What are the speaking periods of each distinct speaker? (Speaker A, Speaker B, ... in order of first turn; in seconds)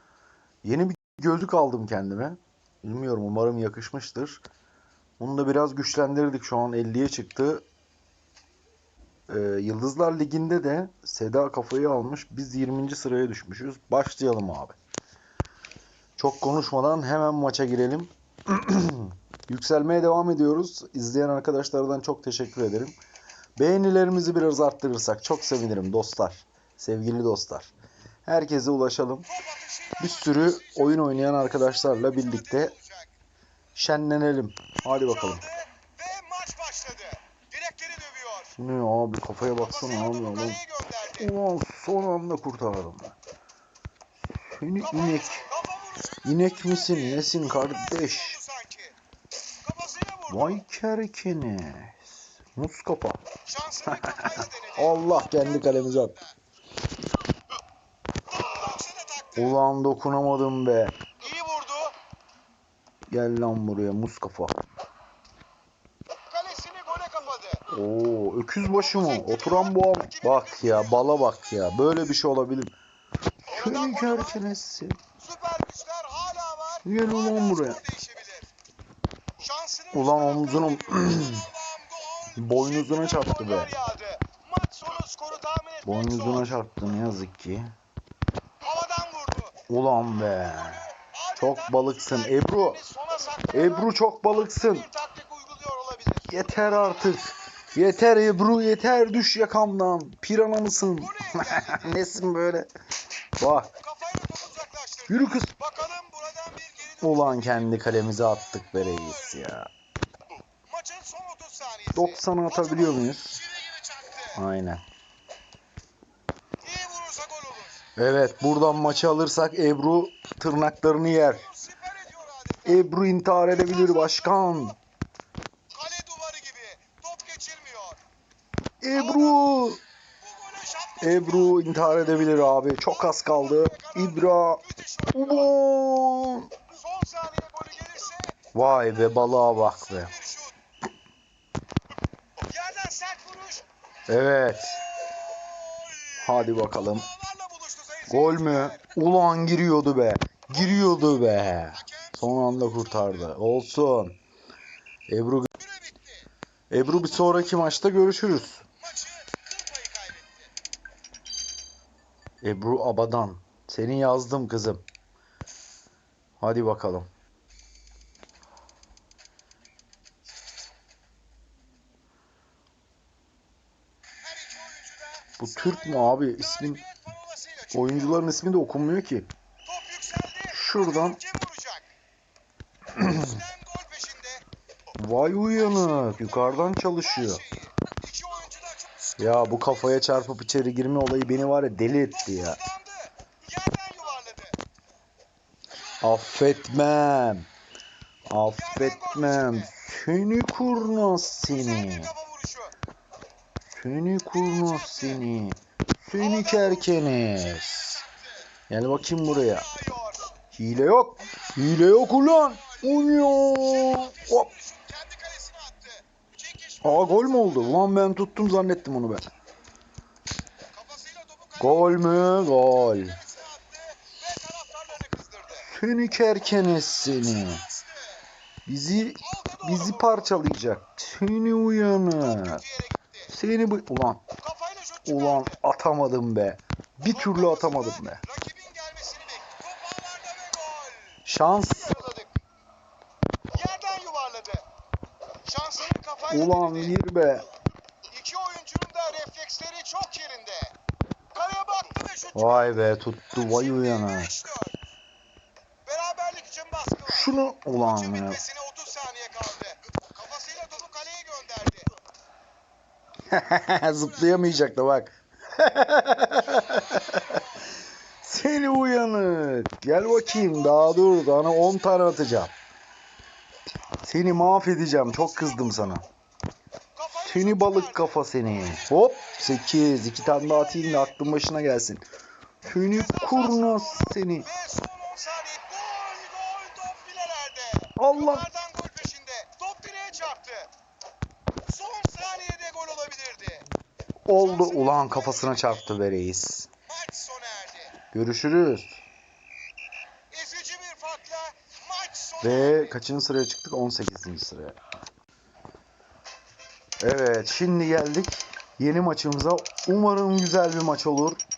Speaker A: 0.6-4.4, 5.2-7.7, 9.3-14.8, 16.2-23.0, 23.6-27.7, 28.2-29.3, 30.0-32.7, 33.8-35.4, 38.6-40.6, 41.2-43.1, 44.5-45.4, 46.2-48.4, 50.3-53.2, 54.1-56.1, 59.4-61.0, 63.1-64.6, 67.7-72.8, 73.5-75.0, 76.8-77.8, 79.9-81.5, 82.4-83.7, 85.8-87.7, 89.7-90.8, 91.4-92.8, 93.5-94.9, 96.3-102.7, 103.4-103.7, 105.1-105.5, 107.0-109.7, 111.9-113.4, 114.3-114.8, 118.0-121.4, 122.7-124.8, 128.8-129.8, 131.0-134.6, 135.1-136.5, 138.5-140.1, 144.1-144.8, 146.2-147.1, 148.1-154.2, 155.1-155.5, 156.7-158.6, 162.4-164.8, 166.4-167.1, 175.4-176.8, 177.7-179.3, 180.5-181.2, 185.0-187.4, 189.2-192.6, 196.0-197.5, 198.3-202.1, 203.7-208.0, 208.7-209.7, 210.5-214.5, 216.8-219.3, 221.6-223.2, 225.6-227.7, 228.7-232.6, 233.3-234.2, 235.1-238.2, 241.2-242.0, 246.3-247.5, 252.3-254.4, 257.1-258.4, 263.3-267.4, 268.2-272.5, 274.0-276.1, 277.1-282.1, 282.6-284.5, 288.0-288.5, 294.3-296.7, 298.1-299.0, 302.4-304.8, 307.0-311.4
Speaker B: 29.3-33.1, 34.8-38.5, 39.6-41.3, 44.8-49.0, 49.6-50.6, 53.5-56.3, 58.3-59.6, 61.2-62.0, 66.3-67.7, 68.7-72.1, 73.5-74.5, 75.2-78.5, 79.4-86.7, 88.6-89.6, 90.4-98.3, 100.9-102.0, 103.8-107.8, 108.4-109.5, 110.7-114.4, 116.6-117.9, 121.1-124.8, 125.7-128.0, 128.9-135.6, 136.7-138.5, 139.6-140.6, 142.5-143.7, 144.6-148.9, 150.5-153.3, 155.6-156.3, 157.0-157.9, 158.8-160.5, 174.2-178.3, 179.7-181.9, 182.9-184.4, 185.5-190.2, 192.1-194.6, 198.5-199.8, 201.0-202.7, 204.3-205.3, 206.2-208.5, 209.2-210.4, 211.2-217.9, 220.7-225.7, 227.0-228.2, 229.2-230.4, 232.1-233.3, 234.4-235.6, 237.1-242.3, 243.5-244.7, 245.4-247.0, 248.1-250.8, 251.3-254.8, 255.9-261.9, 263.8-264.6, 266.4-267.6, 270.0-271.6, 275.0-276.0, 276.9-279.7, 280.2-281.1, 282.9-290.7, 291.6-293.7, 294.3-295.9, 296.9-298.0, 300.3-303.0